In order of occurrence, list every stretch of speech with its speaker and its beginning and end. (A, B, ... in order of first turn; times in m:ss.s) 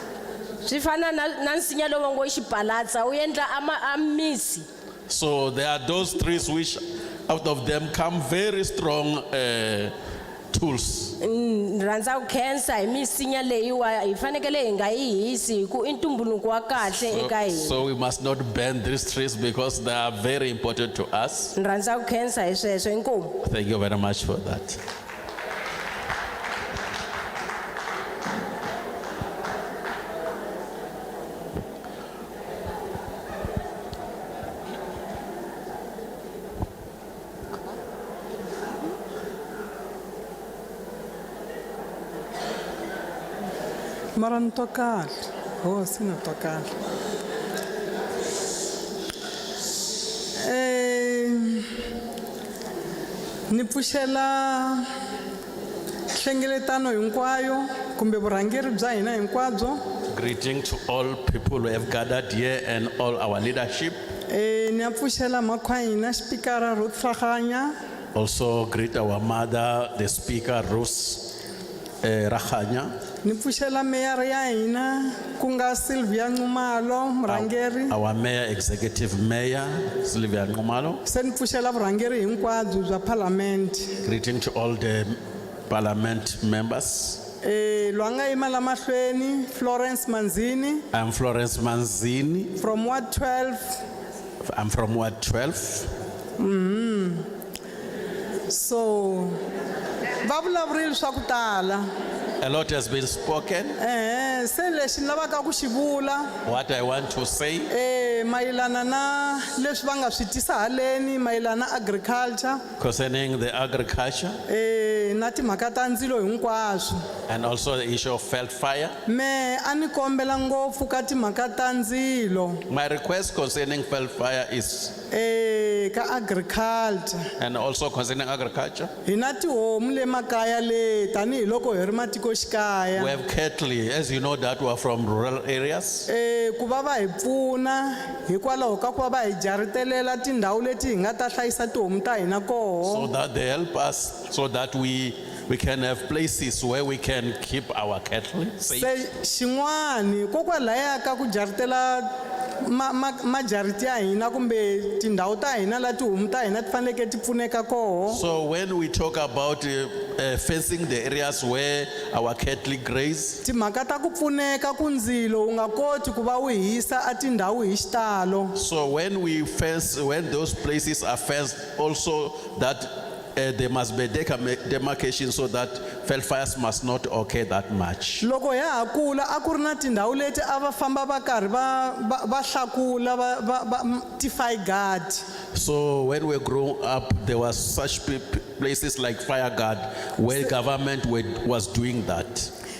0:00.6-0:04.7 A
0:05.1-0:09.9 B
0:10.5-0:11.2 B
0:11.2-0:17.8 A
0:16.8-0:21.5 B
0:21.6-0:23.4 A
0:23.4-0:24.8 B
0:44.1-0:46.7 C
0:50.4-0:51.7 C
0:53.5-0:54.9 C
0:56.1-0:59.8 C
1:00.1-1:04.0 B
1:04.3-1:07.7 C
1:08.1-1:11.3 B
1:12.0-1:12.9 B
1:13.2-1:17.9 C
1:17.2-1:21.0 B
1:21.0-1:23.9 C
1:24.0-1:27.2 B
1:27.4-1:30.8 C
1:30.9-1:32.6 B
1:32.6-1:33.8 C
1:34.4-1:35.9 B
1:36.4-1:37.2 C
1:38.5-1:39.4 C
1:40.2-1:41.8 C
1:42.4-1:43.8 B
1:43.8-1:46.3 C
1:46.4-1:47.7 B
1:47.7-1:52.6 C
1:52.8-1:54.4 B
1:54.5-1:57.0 C
1:57.3-1:59.0 B
1:59.0-2:02.6 C
2:02.7-2:04.9 B
2:05.1-2:07.2 C
2:07.4-2:08.9 B
2:09.0-2:13.1 C
2:12.9-2:16.1 B
2:16.1-2:23.1 C
2:22.8-2:28.9 B
2:28.7-2:32.1 C
2:32.6-2:38.2 C
2:38.1-2:43.4 B
2:43.4-2:48.5 C
2:48.5-2:58.2 B
2:58.2-3:05.2 C
3:05.5-3:12.5 B